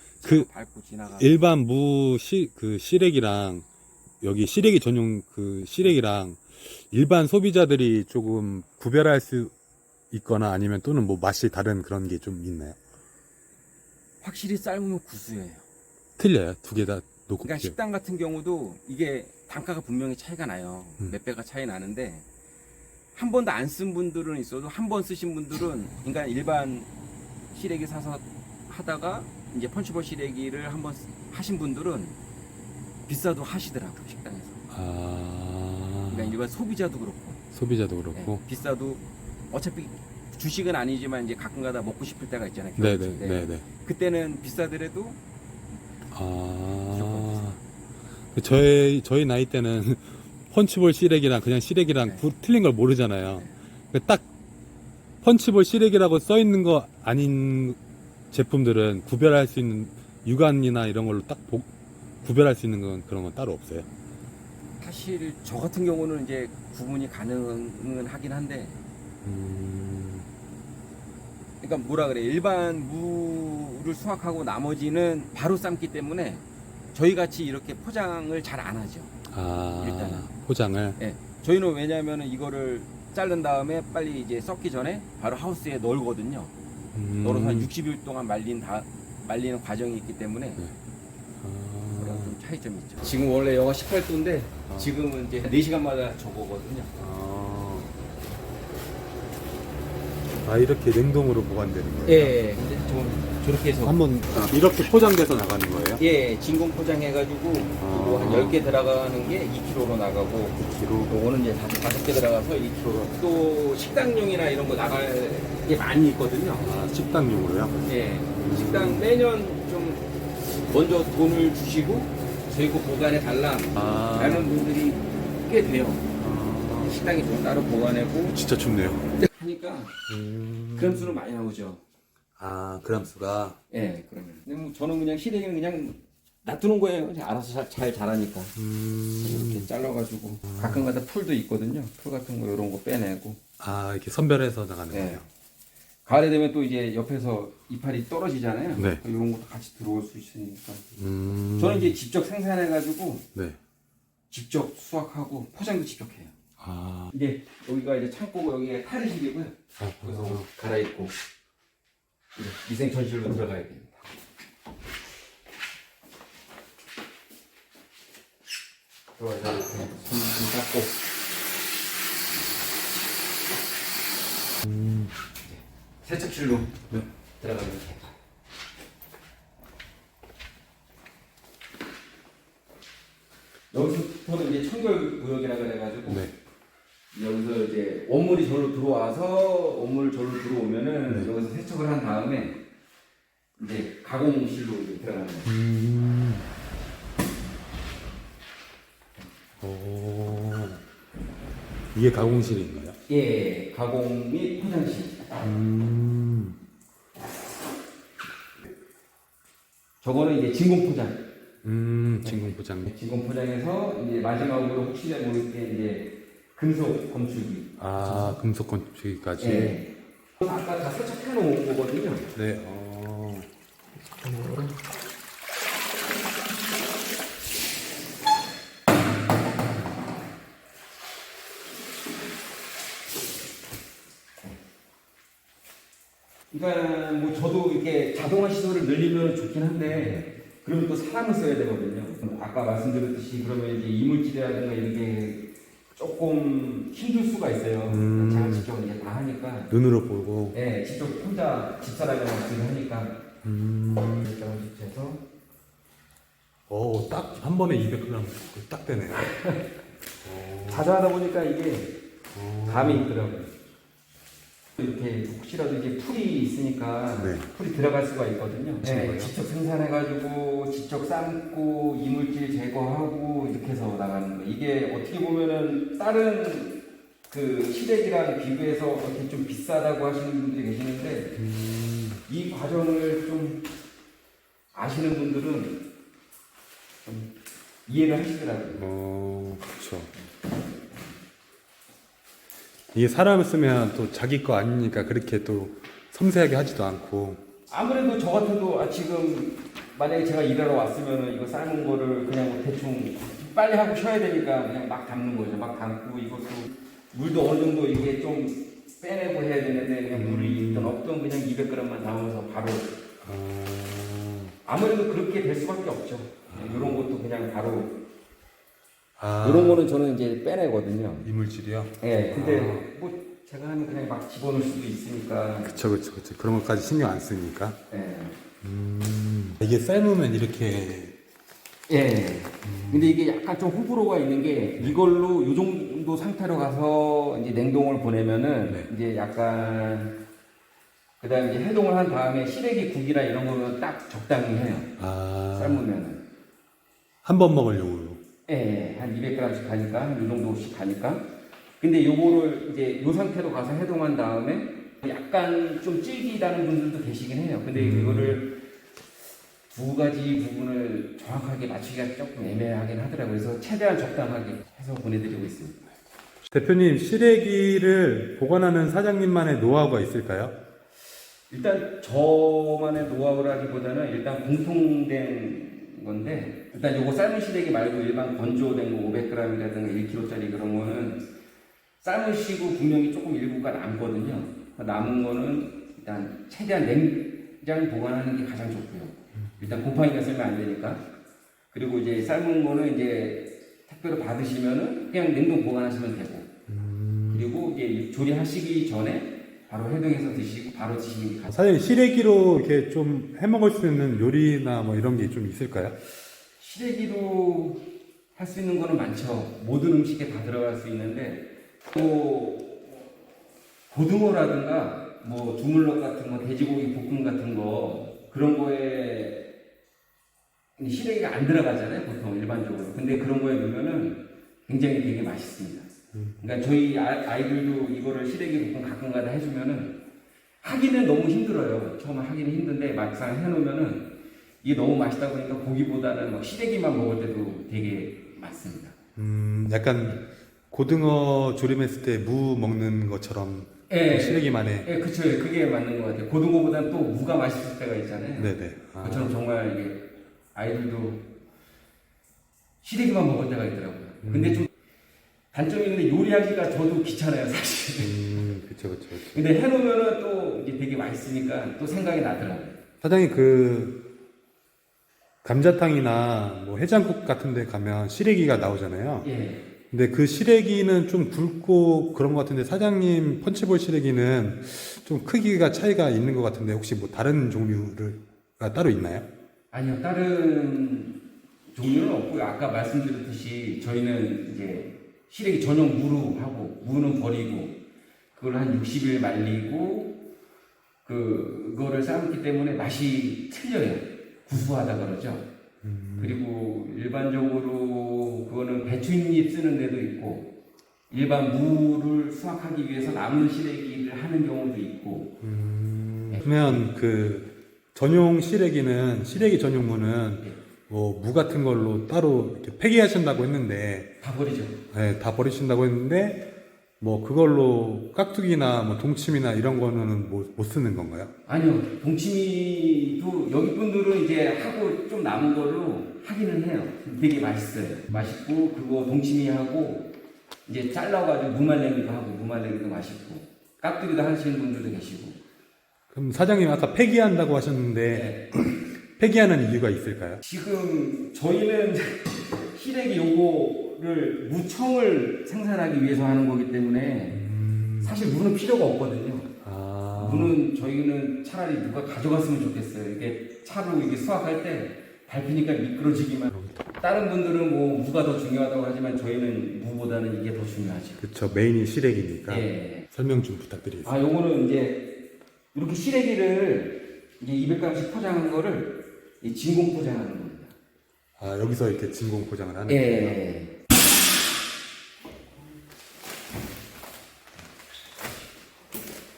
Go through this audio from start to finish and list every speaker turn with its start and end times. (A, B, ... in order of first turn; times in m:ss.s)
0:00.2-0:01.4 A
0:00.2-0:00.5 B
0:01.2-0:03.6 B
0:04.2-0:09.5 B
0:10.1-0:12.8 B
0:14.2-0:15.6 A
0:16.2-0:17.8 B
0:17.4-0:22.2 A
0:23.1-0:26.9 A
0:27.5-0:32.2 A
0:33.1-0:34.6 A
0:34.7-0:36.4 B
0:36.1-0:37.4 A
0:37.5-0:38.4 B
0:38.1-0:45.2 A
0:42.8-0:43.6 B
0:46.1-0:47.6 B
0:46.9-0:47.5 A
0:48.3-0:54.2 B
0:55.2-0:57.8 B
0:58.3-1:01.7 B
1:02.2-1:03.9 B
1:04.8-1:08.8 A
1:09.2-1:10.3 B
1:11.6-1:19.1 A
1:19.3-1:21.0 B
1:19.8-1:20.3 A
1:21.0-1:26.5 A
1:26.9-1:27.7 B
1:27.2-1:30.6 A
1:31.4-1:32.3 B
1:32.0-1:36.9 A
1:34.7-1:34.9 B
1:37.0-1:37.9 B
1:40.4-1:42.4 B
1:42.0-1:44.5 A
1:43.8-1:46.0 B
1:46.0-1:56.8 A
1:47.8-1:48.6 B
1:50.6-1:51.1 B
1:56.6-1:57.8 B
1:57.8-2:00.0 A
1:58.3-1:59.1 B
2:00.7-2:06.1 A
2:03.7-2:04.5 B
2:06.2-2:07.0 B
2:06.8-2:08.4 A
2:08.3-2:09.1 B
2:09.2-2:10.0 A
2:10.1-2:11.2 B
2:10.8-2:11.8 A
2:12.4-2:13.6 B
2:13.7-2:18.6 A
2:18.6-2:19.7 B
2:19.2-2:23.4 A
2:20.4-2:20.8 B
2:23.6-2:25.3 B
2:24.9-2:25.2 A
2:26.0-2:30.8 A
2:28.8-2:29.0 B
2:31.0-2:32.0 B
2:31.6-2:33.3 A
2:34.3-2:36.3 A
2:36.6-2:37.1 B
2:37.1-2:41.1 A
2:39.8-2:40.5 B
2:42.4-2:44.0 A
2:49.2-2:51.0 A
2:54.6-2:55.1 B
2:55.4-2:56.8 A
2:57.4-2:58.1 A
3:03.7-3:06.2 A
3:06.1-3:06.3 B
3:07.1-3:12.6 A
3:13.6-3:15.5 A
3:15.4-3:16.5 B
3:19.6-3:20.8 B
3:21.9-3:23.0 B
3:23.1-3:25.2 A
3:25.4-3:26.6 B
3:30.0-3:31.2 A
3:31.6-3:32.9 B
3:32.2-3:38.4 A
3:37.8-3:39.8 B
3:39.4-3:42.3 A
3:42.3-3:43.5 B
3:44.2-3:44.7 A
3:56.5-4:09.7 A
3:59.8-4:00.2 B
4:07.9-4:08.7 B
4:09.7-4:10.6 B
4:10.5-4:13.2 A
4:13.4-4:14.3 B
4:14.0-4:15.2 A
4:16.7-4:19.3 B
4:19.1-4:19.7 A
4:20.2-4:20.9 B
4:20.7-4:22.0 A
4:22.3-4:23.1 B
4:22.6-4:23.5 A
4:24.8-4:41.4 A
4:27.2-4:27.5 B
4:28.8-4:29.3 B
4:41.4-4:42.2 B
4:42.2-4:43.6 A
4:44.7-4:45.8 A
4:47.0-4:47.3 A
4:47.8-4:48.8 A
4:48.8-4:50.1 B
4:52.9-4:57.4 B
4:57.7-5:12.9 A
5:10.1-5:10.9 B
5:13.2-5:14.6 B
5:14.6-5:18.0 A
5:16.5-5:17.0 B
5:19.2-5:19.8 B
5:19.4-5:21.3 A
5:21.2-5:22.9 B
5:22.0-5:25.8 A
5:25.6-5:27.8 B
5:27.9-5:28.4 A
5:28.6-5:31.1 B
5:31.9-5:40.2 A
5:32.6-5:33.2 B
5:41.2-5:44.9 A
5:45.0-5:45.8 B
5:45.5-5:46.2 A
5:47.2-5:48.2 B
5:48.5-5:58.6 A
5:57.7-5:58.4 B
5:59.7-6:05.8 A
6:06.5-6:10.5 B
6:11.5-6:21.2 A
6:22.0-6:31.0 A
6:29.4-6:29.8 B
6:31.7-6:36.5 A
6:36.7-6:37.5 B
6:37.3-6:41.6 A
6:41.5-6:46.0 B
6:46.6-6:53.1 A
6:53.9-6:59.4 A
7:00.8-7:05.9 A
7:06.1-7:06.4 B
7:06.4-7:10.0 A
7:10.6-7:18.9 A
7:19.2-7:24.9 B
7:23.9-7:31.2 A
7:28.4-7:29.3 B
7:32.8-7:34.7 A
7:34.2-7:34.6 B
7:35.5-7:38.2 A
7:38.0-7:39.4 B
7:39.2-7:42.7 A
7:43.0-7:44.0 B
7:45.4-7:49.3 B
7:49.2-7:49.6 A
7:49.9-7:59.3 B
7:59.7-8:01.2 A
8:01.7-8:07.8 A
8:08.3-8:10.2 A
8:11.0-8:15.4 A
8:15.8-8:16.4 B
8:16.2-8:20.5 A
8:21.1-8:25.3 A
8:25.4-8:34.1 B
8:26.3-8:26.8 A
8:34.2-8:34.8 A
8:34.9-8:36.4 B
8:37.0-8:41.3 B
8:41.5-8:50.1 A
8:50.6-8:55.4 A
8:56.1-9:00.4 B
8:58.1-8:58.5 A
9:00.4-9:07.4 A
9:07.3-9:08.2 B
9:08.0-9:09.5 A
9:09.6-9:10.6 B
9:10.1-9:21.2 A
9:16.5-9:16.9 B
9:21.2-9:24.1 B
9:22.5-9:23.1 A
9:24.0-9:25.1 A
9:25.7-9:30.7 A
9:31.4-9:33.4 B
9:32.9-9:33.8 A